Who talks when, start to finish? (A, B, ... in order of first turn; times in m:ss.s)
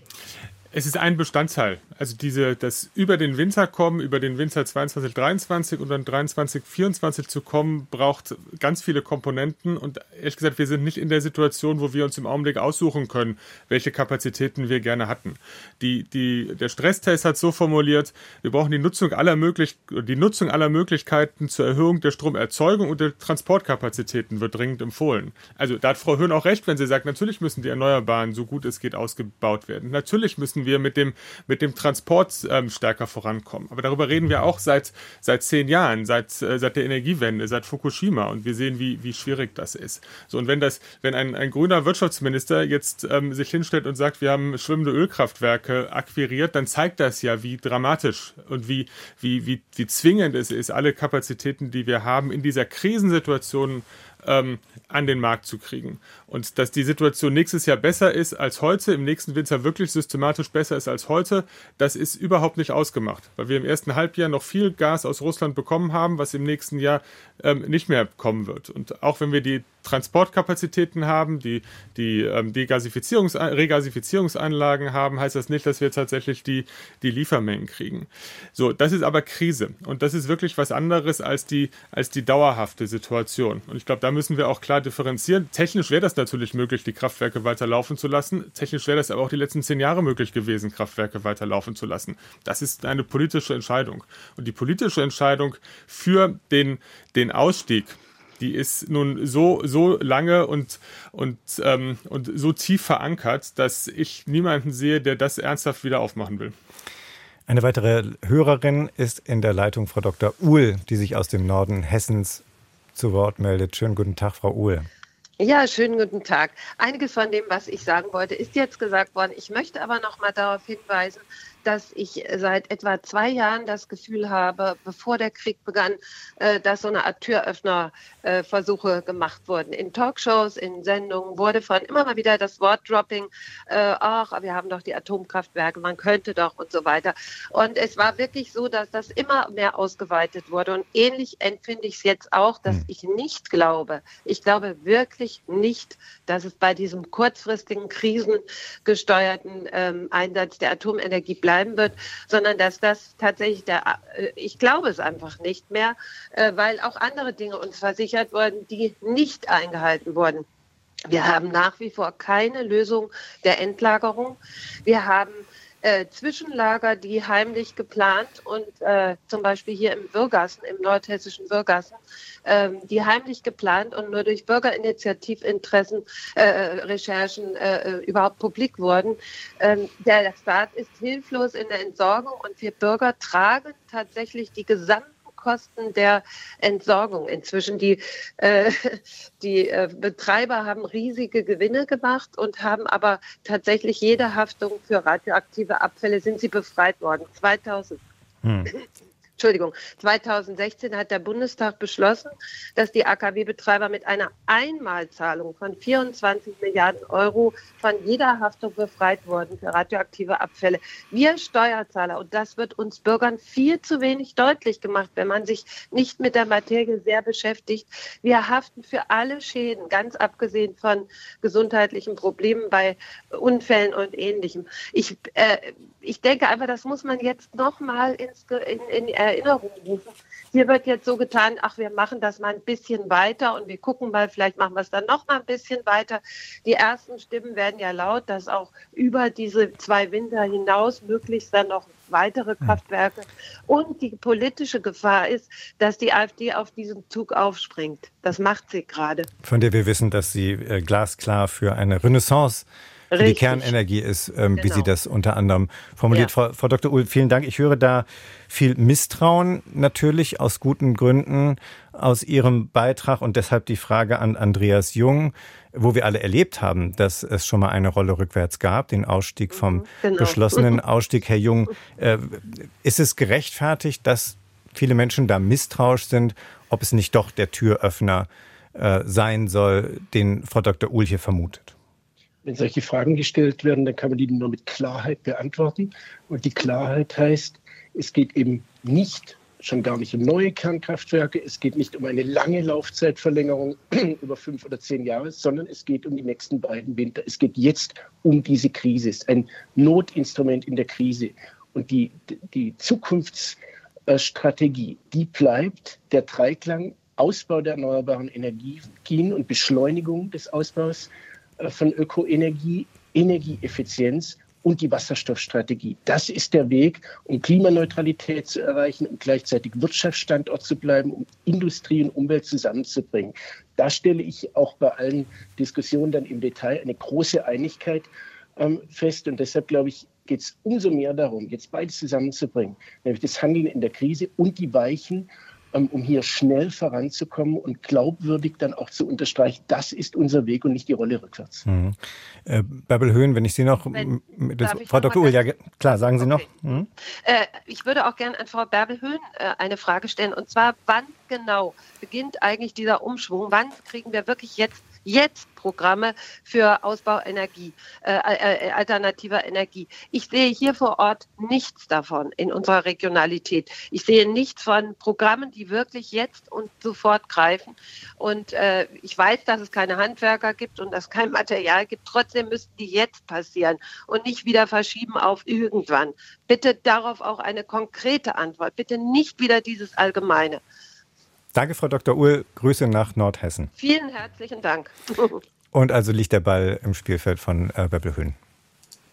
0:00.7-1:46.5 A
1:47.5-1:52.4 B
1:52.9-1:54.9 B
1:55.4-2:40.4 C
2:41.1-3:18.0 C
3:18.4-3:18.7 B
3:19.4-4:09.3 C
4:09.4-4:12.7 B
4:13.1-4:13.8 C
4:13.2-4:41.8 B
4:14.6-4:14.9 C
4:29.5-4:30.8 C
4:42.4-5:41.6 D
5:41.6-5:46.9 B
5:43.9-5:46.5 C
5:47.2-6:20.6 C
6:21.5-6:23.7 B
6:23.8-6:25.4 C
6:25.7-6:28.4 B